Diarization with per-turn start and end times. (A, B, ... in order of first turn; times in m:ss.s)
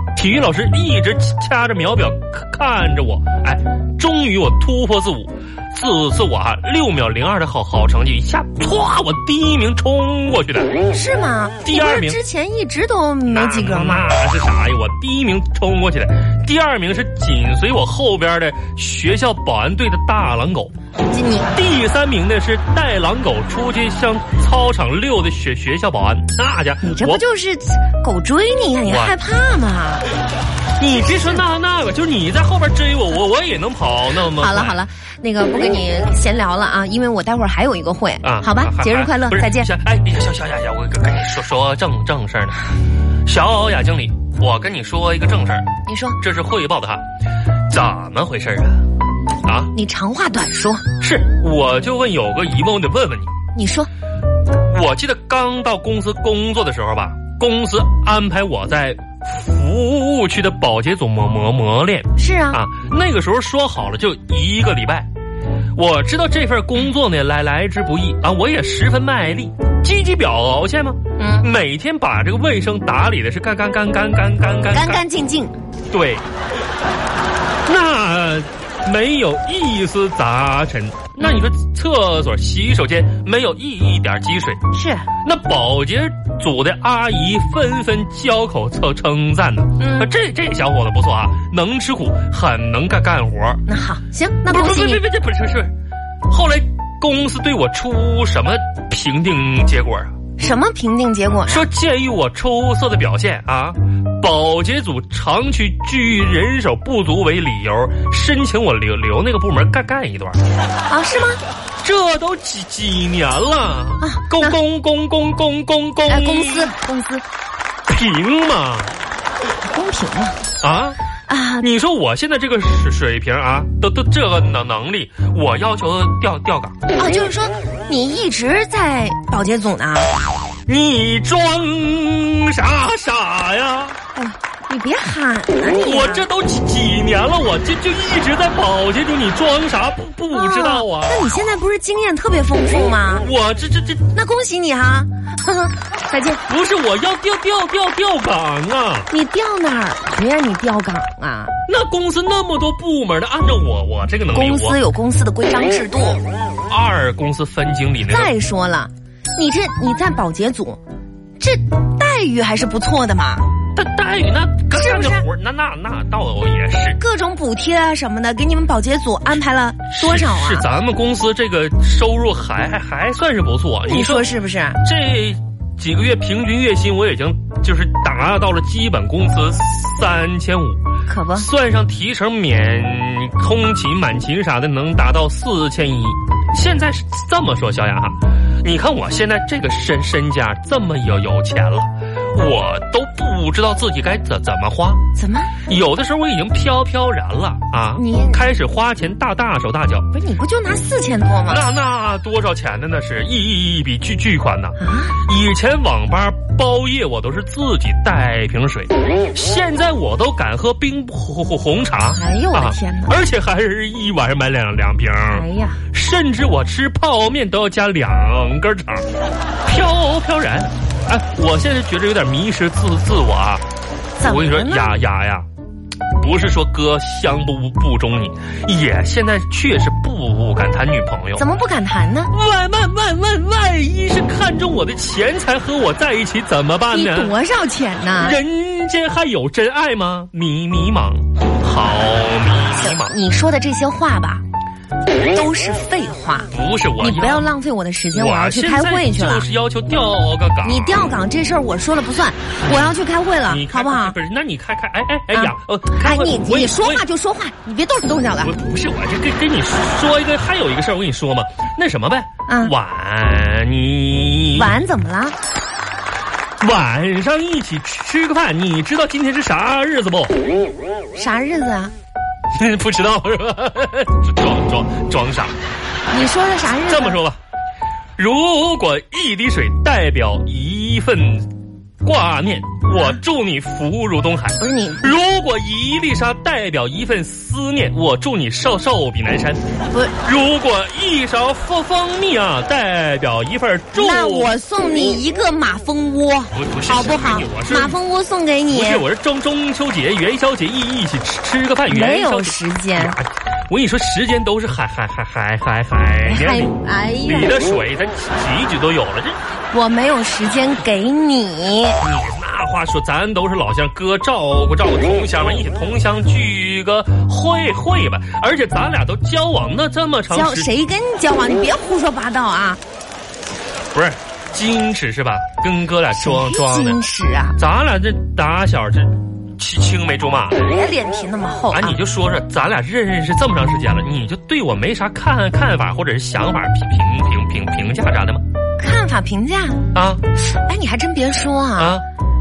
0:00.1-0:10.7 A
0:10.9-0:14.1 B
0:11.6-0:12.2 A
0:13.2-0:20.7 A
0:21.1-0:21.5 B
0:21.5-0:27.2 A
0:26.8-0:30.0 B
0:28.8-0:29.2 A
0:30.8-0:34.8 A
0:30.9-0:31.4 B
0:34.4-0:39.7 B
0:38.2-0:42.6 A
0:43.2-0:47.0 A
0:45.8-0:46.2 B
0:47.7-0:48.9 A
0:49.4-0:49.7 A
0:49.7-0:50.8 B
0:51.0-0:53.3 A
0:53.5-0:53.9 B
0:54.7-1:05.1 A
1:02.2-1:02.6 B
1:05.8-1:15.0 A
1:11.2-1:11.5 B
1:14.7-1:15.5 B
1:15.9-1:16.2 A
1:17.6-1:24.6 A
1:24.7-1:25.1 B
1:25.2-1:33.6 A
1:29.8-1:30.1 B
1:33.6-1:35.0 B
1:34.4-1:35.7 A
1:36.3-1:40.1 A
1:40.4-1:41.7 B
1:41.5-1:50.4 A
1:50.9-1:51.4 B
1:51.8-1:56.7 A
1:54.0-1:54.6 B
1:56.1-1:57.2 B
1:57.9-1:59.0 A
1:59.7-2:00.4 B
2:00.6-2:01.0 A
2:01.3-2:01.6 B
2:01.6-2:06.8 A
2:06.9-2:10.1 B
2:10.7-2:14.0 A
2:14.1-2:16.3 B
2:15.7-2:21.2 A
2:20.3-2:23.2 B
2:23.2-2:24.1 A
2:24.1-2:26.4 B
2:26.5-2:29.1 A
2:29.1-2:31.5 B
2:31.6-2:34.8 A
2:34.3-2:36.2 B
2:36.7-2:38.3 A
2:38.0-2:40.8 B
2:41.4-2:43.5 B
2:43.7-2:47.0 A
2:44.7-2:45.2 B
2:47.0-2:50.6 B
2:49.9-2:54.3 A
2:53.9-2:54.8 B
2:54.8-3:15.0 A
3:01.0-3:01.5 B
3:15.1-3:15.5 B
3:15.6-3:20.1 A
3:18.0-3:18.4 B
3:20.1-3:21.6 B
3:21.5-3:39.0 A
3:24.8-3:25.2 B
3:32.1-3:33.2 B
3:35.3-3:35.8 B
3:39.6-3:43.6 A
3:44.2-3:44.9 B
3:44.2-3:45.4 A
3:46.2-3:51.4 A
3:51.4-3:52.3 B
3:52.3-3:57.3 A
3:56.9-3:58.4 B
3:58.2-4:03.2 A
4:02.8-4:04.4 B
4:05.3-4:09.4 B
4:06.5-4:07.5 A
4:08.1-4:11.2 A
4:10.6-4:14.1 B
4:12.6-4:17.0 A
4:15.3-4:18.5 B
4:18.4-4:24.8 A
4:22.5-4:22.7 B
4:24.5-4:25.4 B
4:26.6-4:30.3 A
4:31.1-4:31.9 B
4:32.5-4:35.6 A
4:36.1-4:37.2 B
4:36.9-4:37.4 A
4:38.2-4:41.5 A
4:42.0-4:49.6 A
4:44.6-4:45.2 B
4:50.2-4:54.5 A
4:53.9-4:59.0 B
4:56.5-4:58.0 A
4:58.7-5:09.4 A
5:01.9-5:03.2 B
5:06.2-5:07.6 B
5:09.7-5:12.0 B
5:12.0-5:20.7 A
5:20.3-5:22.8 B
5:23.9-5:27.0 A
5:26.1-5:27.6 B
5:27.6-5:30.6 A
5:30.5-5:32.0 B
5:31.7-5:38.4 A
5:38.8-5:42.0 B
5:39.9-5:40.2 A
5:41.8-5:42.0 A